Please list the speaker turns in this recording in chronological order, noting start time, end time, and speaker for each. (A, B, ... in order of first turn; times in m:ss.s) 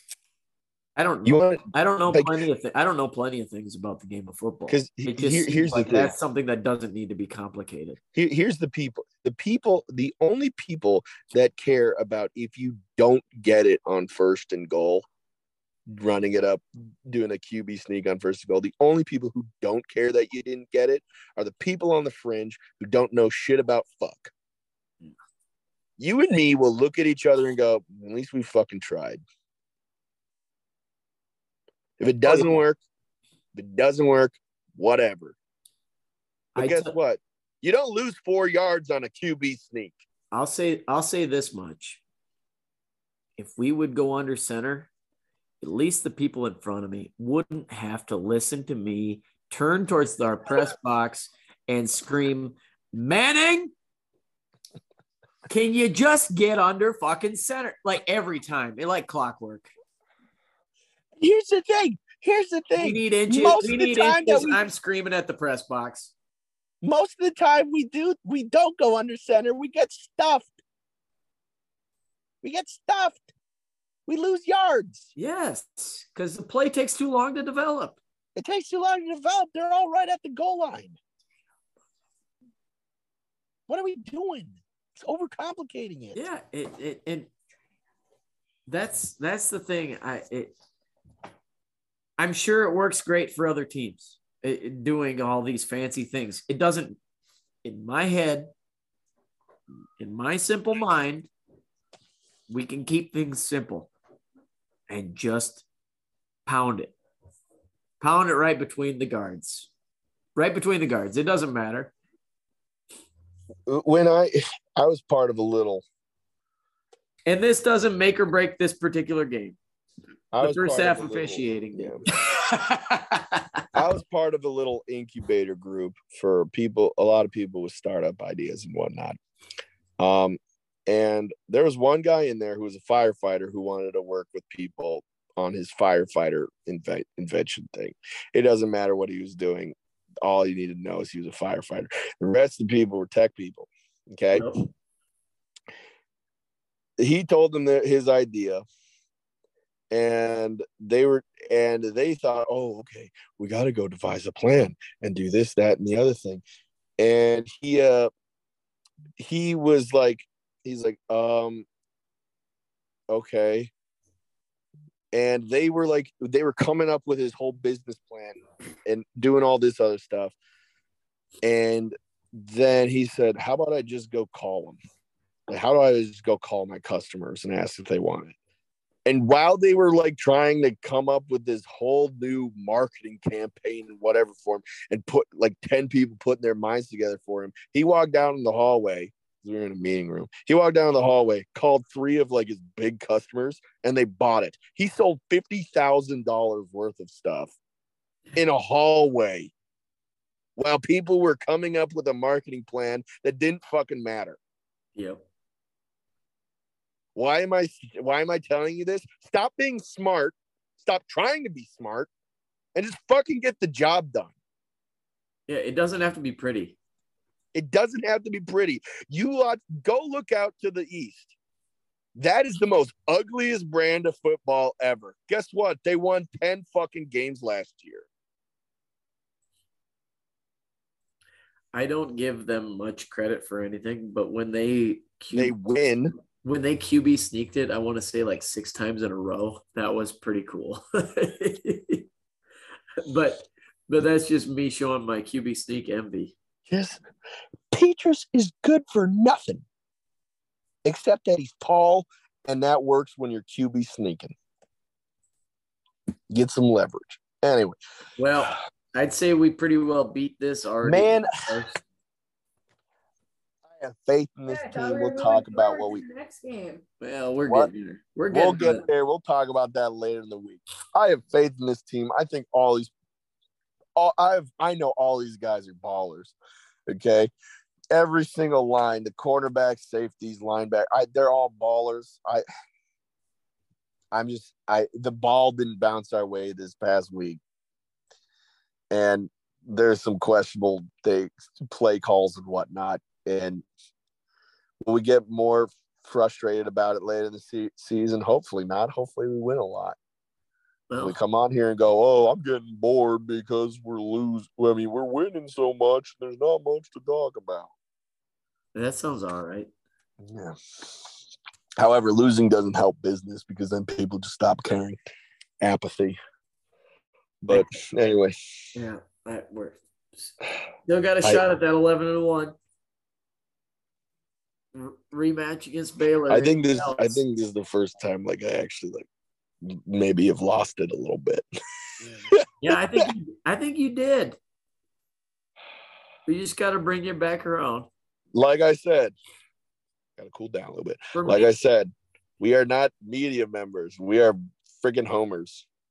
0:01.0-0:08.0 A
0:01.2-0:02.4 B
0:04.7-0:06.1 B
0:08.1-0:15.0 B
0:15.9-0:24.3 B
0:26.0-0:29.2 B
0:32.0-0:32.8 B
0:32.2-0:32.6 A
0:33.5-0:35.4 B
0:36.6-0:36.9 A
0:36.6-0:40.0 B
0:40.3-0:42.0 A
0:43.4-0:44.9 A
0:45.6-0:53.7 A
0:55.5-0:59.7 A
1:01.2-1:04.6 B
1:02.8-1:06.1 A
1:06.8-1:10.5 B
1:12.4-1:13.2 B
1:14.1-1:15.1 B
1:15.2-1:18.0 A
1:18.3-1:21.0 B
1:23.7-1:26.2 B
1:26.1-1:27.3 A
1:28.7-1:30.5 A
1:32.2-1:37.0 A
1:37.6-1:38.5 A
1:40.0-1:41.3 A
1:42.5-1:43.9 A
1:44.9-1:45.6 A
1:46.4-1:46.9 A
1:48.0-1:49.7 A
1:50.3-1:51.9 A
1:53.7-1:55.8 B
1:57.2-1:59.6 A
2:00.3-2:02.0 B
2:00.4-2:03.6 A
2:03.7-2:09.2 B
2:10.0-2:24.5 B
2:24.3-2:24.7 A
2:27.0-2:28.6 B
2:29.9-2:36.4 B
2:37.0-2:38.1 B
2:39.2-2:41.6 B
2:43.1-2:43.7 B
2:45.1-2:50.4 B
2:51.4-2:54.8 B
2:55.5-2:58.3 B
2:59.0-3:17.5 B
3:18.4-3:19.5 B
3:20.6-3:24.4 B
3:25.0-3:25.2 A
3:27.1-3:32.1 B
3:32.7-3:34.3 B
3:35.5-3:36.8 A
3:37.5-3:41.3 B
3:42.2-3:48.0 B
3:51.7-3:55.5 A
3:55.3-3:56.1 B
3:56.4-4:02.0 A
4:03.0-4:06.3 A
4:06.7-4:07.0 B
4:07.7-4:09.6 B
4:10.8-4:14.3 B
4:16.3-4:17.8 B
4:18.2-4:21.8 A
4:20.8-4:21.3 B
4:23.7-4:26.0 B
4:24.5-4:26.8 C
4:27.0-4:28.8 A
4:28.3-4:32.9 B
4:34.0-4:36.4 B
4:36.9-4:37.3 B
4:37.9-4:42.4 B
4:44.1-4:47.4 B
4:48.9-4:53.6 B
4:54.8-5:00.0 B
5:00.9-5:01.2 A
5:01.0-5:07.7 B
5:08.7-5:09.7 A
5:10.2-5:10.5 B
5:11.8-5:15.0 B
5:15.6-5:16.2 B
5:17.4-5:18.4 B
5:18.7-5:20.3 A
5:20.9-5:22.5 A
5:24.7-5:27.2 A
5:26.3-5:29.0 B
5:29.6-5:31.4 B
5:32.0-5:34.4 A
5:32.3-5:33.0 B
5:36.3-5:37.9 A
5:38.3-5:39.2 B
5:40.2-5:45.6 B
5:41.1-5:41.5 A